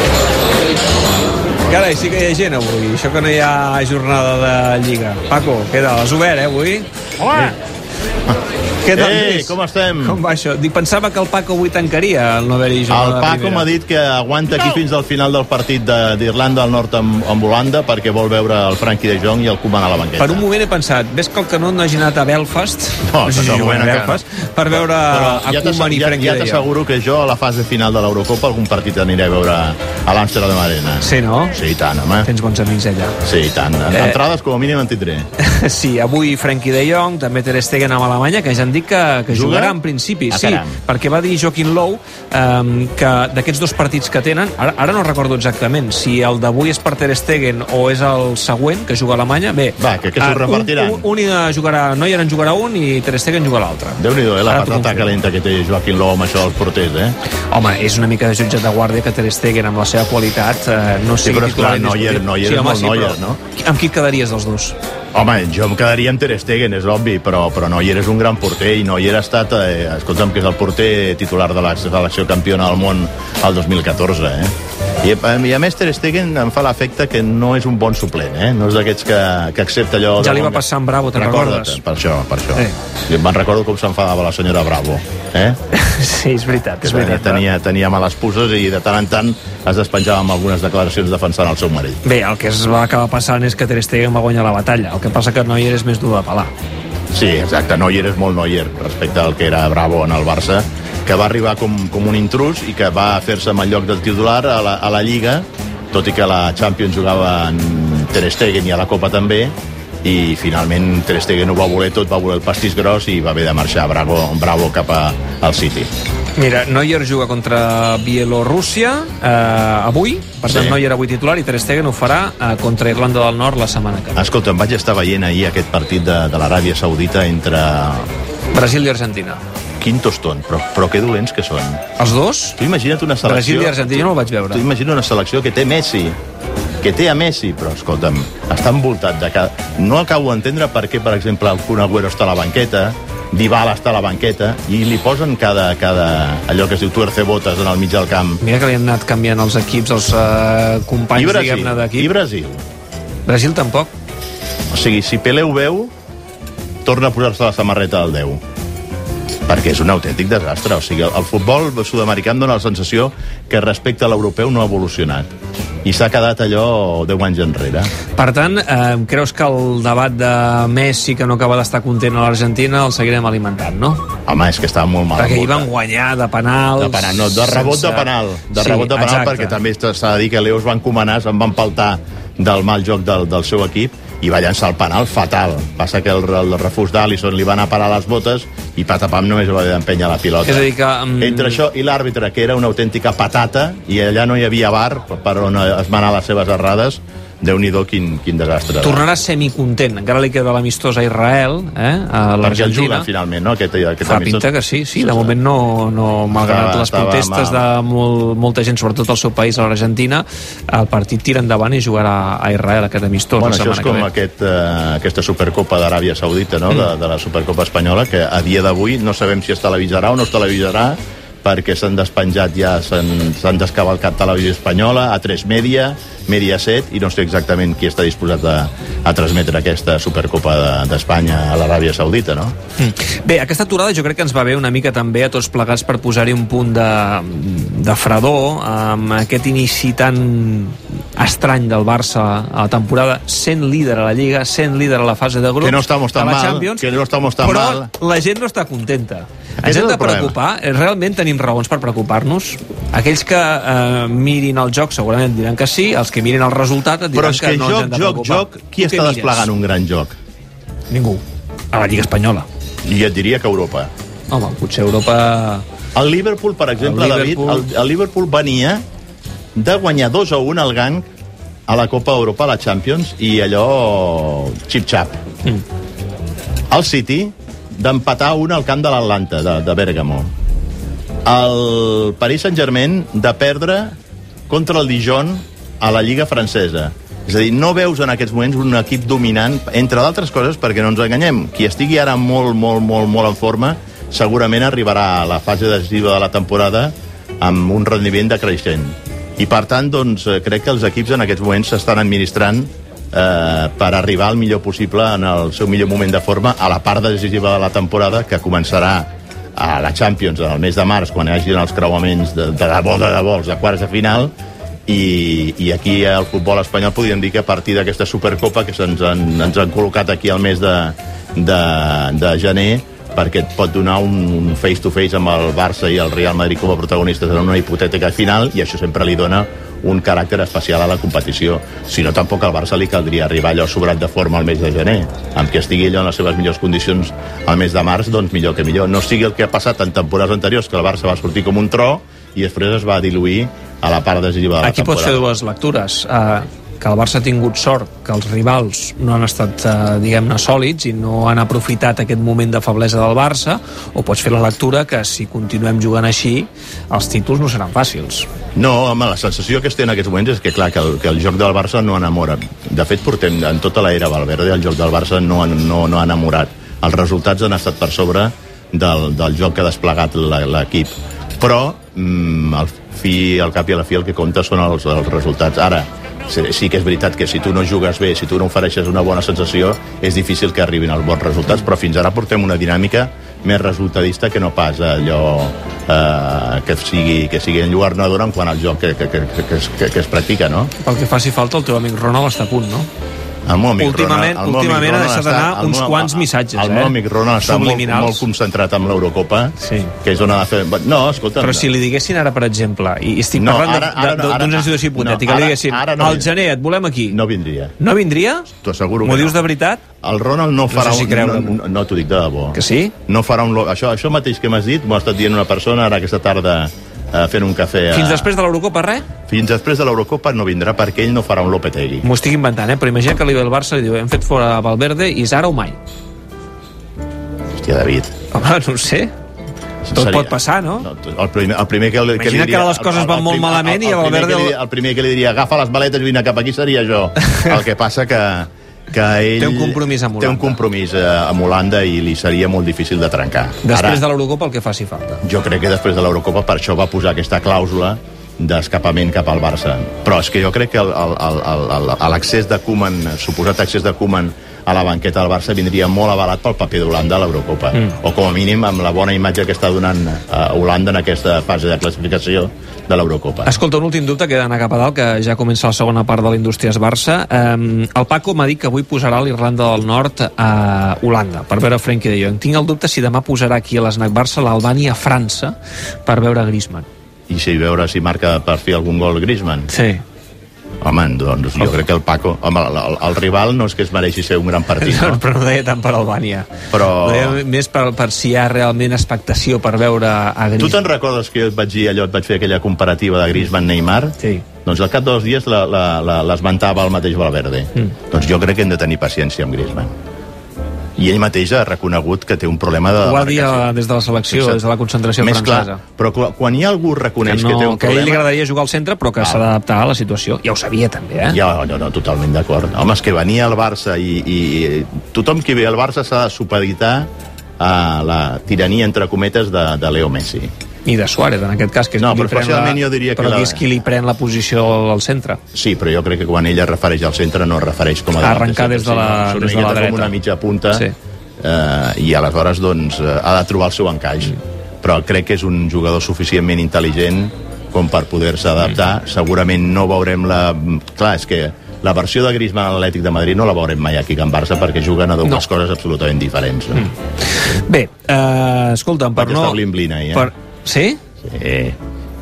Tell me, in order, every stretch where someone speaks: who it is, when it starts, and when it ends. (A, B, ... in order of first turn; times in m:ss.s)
0:01.7-0:06.9 A
0:07.2-0:07.5 B
0:08.8-0:13.7 A
0:08.9-0:10.2 B
0:12.9-0:20.4 B
0:20.2-0:26.7 A
0:23.0-0:32.3 B
0:31.0-0:31.6 A
0:32.2-0:33.2 A
0:33.2-0:35.3 B
0:33.9-0:34.2 A
0:35.4-0:55.2 A
0:39.3-0:39.8 B
0:40.3-0:40.8 B
0:49.8-0:51.0 B
0:54.0-0:57.2 B
0:57.5-1:04.8 A
1:01.2-1:03.4 B
1:05.1-1:20.6 B
1:20.2-1:21.8 A
1:21.1-1:25.6 B
1:25.7-1:27.4 A
1:26.8-1:32.0 B
1:32.0-1:36.5 A
1:37.1-1:55.9 B
1:56.4-2:04.2 A
2:00.4-2:00.8 B
2:04.2-2:08.1 B
2:08.5-2:09.4 A
2:09.8-2:11.8 B
2:12.0-2:12.6 A
2:12.6-2:16.2 B
2:13.2-2:14.6 A
2:16.8-2:28.4 B
2:28.4-2:32.1 A
2:31.1-2:32.6 B
2:33.2-2:33.9 A
2:34.7-2:35.9 B
2:36.8-2:38.4 B
2:39.5-2:45.3 B
2:45.8-2:47.9 B
2:48.1-2:54.1 A
2:54.3-2:55.7 B
2:55.2-2:59.6 A
2:56.8-3:19.0 B
3:10.4-3:11.6 A
3:18.8-3:23.1 A
3:22.4-3:25.4 B
3:24.0-3:34.1 A
3:26.4-3:27.6 B
3:33.4-3:52.5 B
3:52.8-4:19.5 A
4:05.6-4:07.9 B
4:09.6-4:10.3 B
4:17.1-4:20.2 B
4:20.9-4:22.5 A
4:22.8-4:23.9 B
4:24.3-4:25.6 A
4:25.9-4:28.8 B
4:26.8-4:27.7 A
4:29.6-4:31.0 B
4:31.7-4:35.2 B
4:36.7-4:40.3 B
4:41.2-4:43.9 B
4:44.5-5:14.3 B
5:14.9-5:45.2 B
5:44.6-5:58.3 A
5:58.6-6:30.7 B
6:30.8-6:32.9 A
6:33.4-6:41.7 B
6:33.8-6:38.2 A
6:39.6-6:39.9 A
6:41.4-6:47.2 A
6:43.3-6:46.3 B
6:47.1-6:47.7 B
6:47.8-6:48.5 A
6:48.6-6:49.4 B
6:49.0-6:49.8 A
6:50.0-6:58.3 B
6:50.7-6:51.6 A
6:52.5-6:52.9 A
6:57.9-6:59.1 A
6:59.3-7:02.0 B
7:02.0-7:05.8 A
7:07.5-7:08.2 B
7:08.3-7:09.1 A
7:09.8-7:24.0 B
7:09.9-7:10.9 A
7:12.2-7:14.6 A
7:19.4-7:20.6 A
7:23.6-7:25.2 A
7:25.2-7:43.5 B
7:43.4-7:55.5 A
7:56.0-7:56.8 A
7:57.3-7:59.7 B
7:59.7-8:00.0 A
8:00.8-8:05.2 B
8:04.8-8:10.8 A
8:06.7-8:07.4 B
8:10.6-8:19.9 B
8:14.2-8:14.4 A
8:21.0-8:23.7 B
8:23.0-8:25.8 A
8:24.3-8:24.6 B
8:25.2-8:28.2 B
8:27.2-8:31.4 A
8:29.2-8:29.4 B
8:31.3-8:37.1 B
8:37.6-8:40.5 B
8:40.8-8:45.4 A
8:42.0-8:43.6 B
8:45.5-8:50.9 B
8:48.2-8:50.1 A
8:51.4-9:06.9 B
9:06.7-9:09.6 A
9:09.2-9:10.3 B
9:10.1-9:11.0 A
9:11.2-9:11.8 B